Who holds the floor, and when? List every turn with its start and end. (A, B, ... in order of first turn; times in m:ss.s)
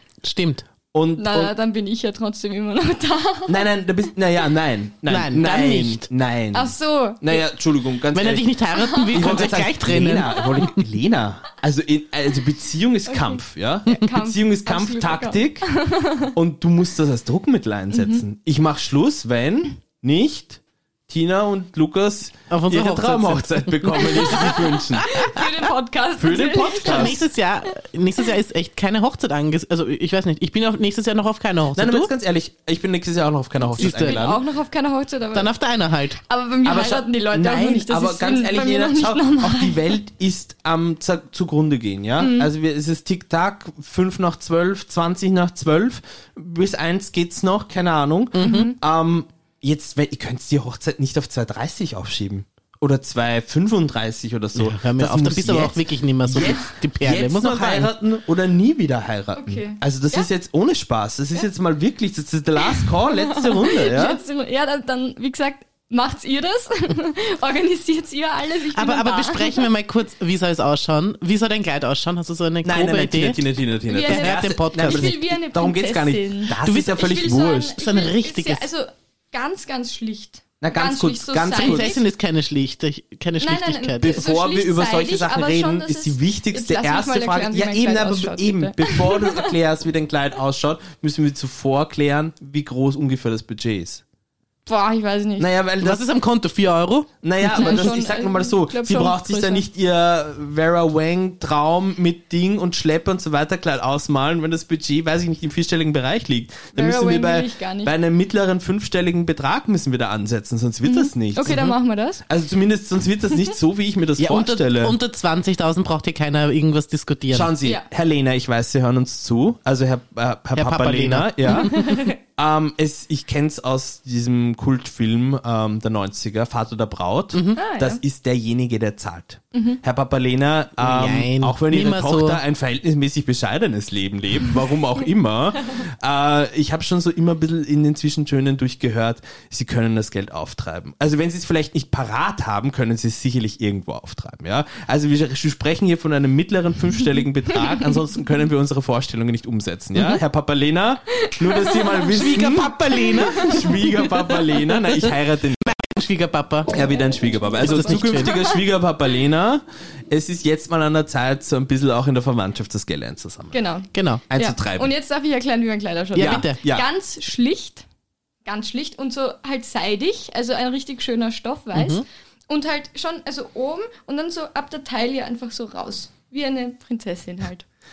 0:00.2-0:00.6 A
0:00.9-0:01.5 B
0:01.2-0:03.6 C
0:03.5-0:08.5 B
0:05.0-0:06.1 A
0:06.5-0:07.4 C
0:08.1-0:10.8 A
0:08.7-0:09.5 C
0:09.1-0:15.7 B
0:13.1-0:16.3 C
0:16.3-0:25.2 B
0:17.9-0:18.2 C
0:22.5-0:25.4 A
0:25.1-0:27.2 C
0:26.2-0:27.2 B
0:26.8-0:32.1 A
0:31.7-0:34.4 B
0:33.8-0:35.5 C
0:33.8-0:34.2 A
0:35.3-0:36.2 A
0:36.3-0:39.9 C
0:36.6-1:04.2 B
0:42.2-0:42.5 C
0:48.3-0:48.7 A
0:48.4-0:48.8 C
0:54.5-0:57.9 A
0:59.4-1:00.3 C
1:02.6-1:09.7 C
1:08.7-1:13.4 A
1:12.6-1:17.8 B
1:13.9-1:22.0 C
1:14.0-1:15.1 A
1:16.6-1:17.0 A
1:17.8-1:18.7 A
1:20.6-1:21.9 B
1:21.5-1:24.1 A
1:23.4-1:29.5 C
1:24.0-1:34.0 B
1:34.7-1:35.5 C
1:35.4-1:36.0 B
1:35.8-1:37.9 A
1:37.2-1:51.7 B
1:37.5-1:39.6 C
1:46.7-1:47.9 C
1:50.8-1:52.2 C
1:51.4-1:51.7 A
1:52.3-1:55.0 B
1:54.2-1:57.5 A
1:57.3-2:35.7 B
2:00.5-2:02.0 A
2:01.5-2:02.2 C
2:07.3-2:07.6 A
2:07.6-2:08.0 C
2:09.5-2:09.8 C
2:10.8-2:12.4 A
2:27.5-2:28.0 C
2:31.2-2:32.0 C
2:32.1-2:33.8 A
2:33.0-2:34.4 C
2:35.6-2:36.8 A
2:36.7-2:43.6 B
2:37.4-2:38.6 C
2:37.6-2:38.4 A
2:43.5-2:47.8 C
2:43.9-2:44.2 A
2:44.3-2:44.9 B
2:46.1-2:46.6 A
2:46.2-2:46.9 B
2:48.4-2:57.6 C
2:51.7-2:52.0 A